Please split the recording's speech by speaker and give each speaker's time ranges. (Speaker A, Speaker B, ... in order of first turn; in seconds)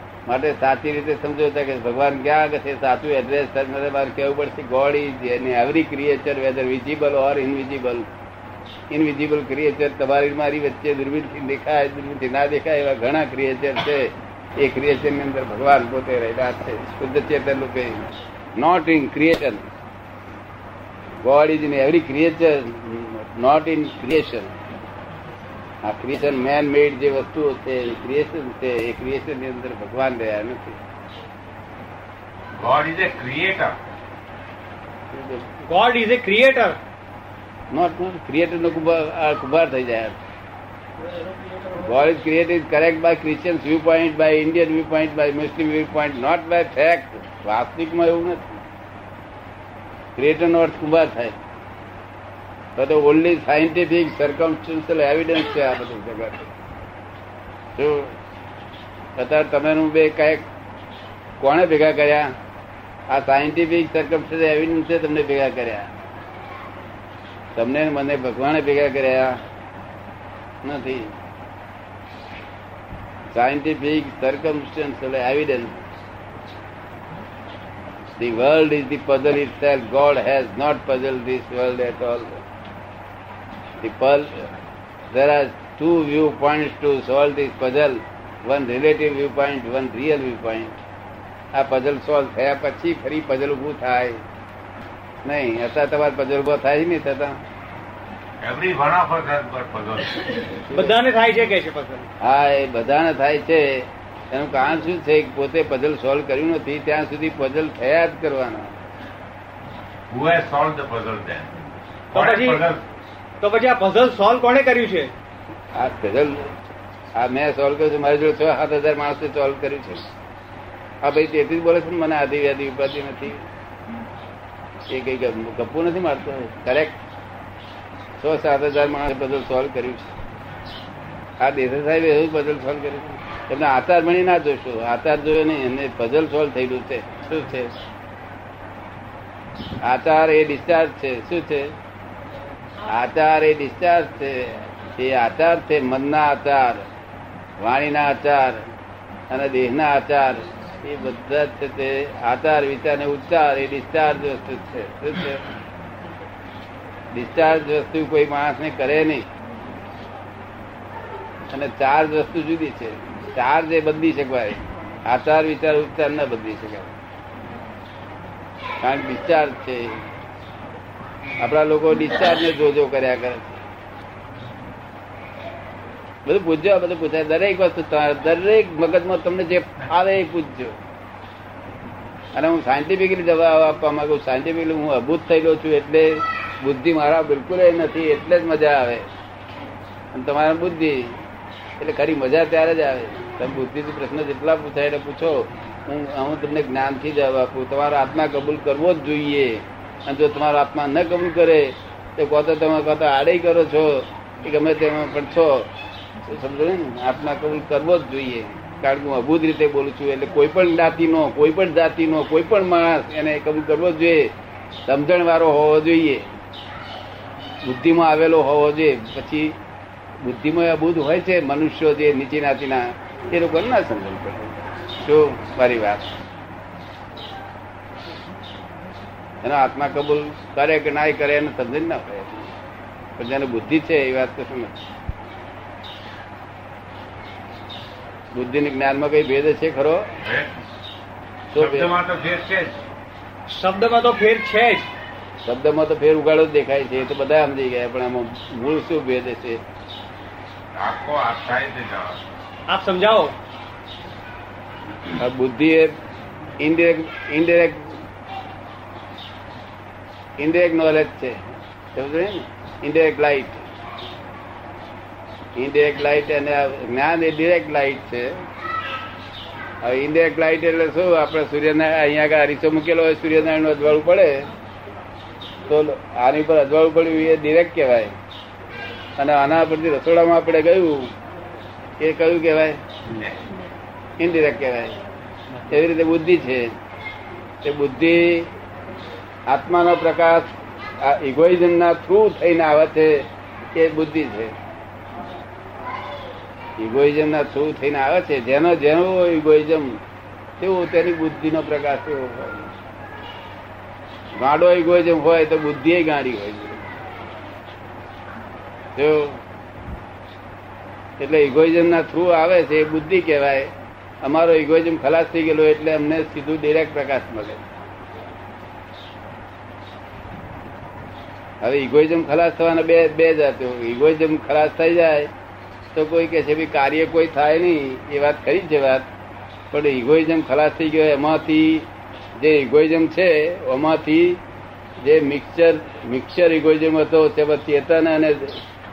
Speaker A: 0.3-8.1, 8.9-18.0, 18.6-19.6, 21.2-24.5, 25.8-30.8, 35.1-35.4, 37.7-40.2, 41.7-48.6, 50.1-51.3, 52.8-56.5, 57.8-58.1, 59.2-60.4, 61.4-62.3, 63.1-65.9, 67.5-69.4, 70.6-71.1, 73.3-75.8, 78.2-82.4, 83.8-84.5, 85.1-90.7, 91.5-94.2, 95.2-97.4, 100.7-101.0, 102.2-108.7, 115.7-116.5, 117.2-120.0, 121.0-123.4, 124.9-127.0, 128.2-130.1, 131.4-137.7, 139.8-141.7, 142.9-146.8, 147.6-148.6, 149.3-155.4, 157.1-159.2, 161.5-166.9, 168.8-170.0, 171.4-173.6, 176.2-180.7, 182.3-189.1, 190.1-191.2, 191.8-205.7, 206.2-214.3, 214.8-216.2, 217.6-219.5, 220.2-226.1, 229.4-232.5, 233.2-234.8, 238.3-240.0, 241.5-241.9, 245.4-249.6, 255.1-255.9, 256.6-258.0, 260.4-261.4, 261.9-263.6, 265.6-268.3, 269.8-274.5, 275.6-278.1, 279.2-281.1, 282.0-282.8, 284.2-285.0, 285.7-286.7, 287.6-288.5, 289.5-290.5, 291.0-293.2, 293.7-294.5, 296.8-300.0, 300.6-302.7, 304.4-306.8, 308.9-309.4, 311.2-313.7, 314.2-317.6, 321.6-325.3, 325.9-329.1, 329.7-331.9, 332.4-334.4, 335.0-338.6
Speaker B: 32.6-33.7, 98.4-100.5, 110.1-111.5, 112.1-112.8, 240.2-240.5, 241.6-242.8, 250.7-252.2, 283.1-283.4
Speaker C: 35.7-36.8, 100.7-102.1, 112.1-112.6, 113.4-115.1, 243.5-244.8, 252.7-253.3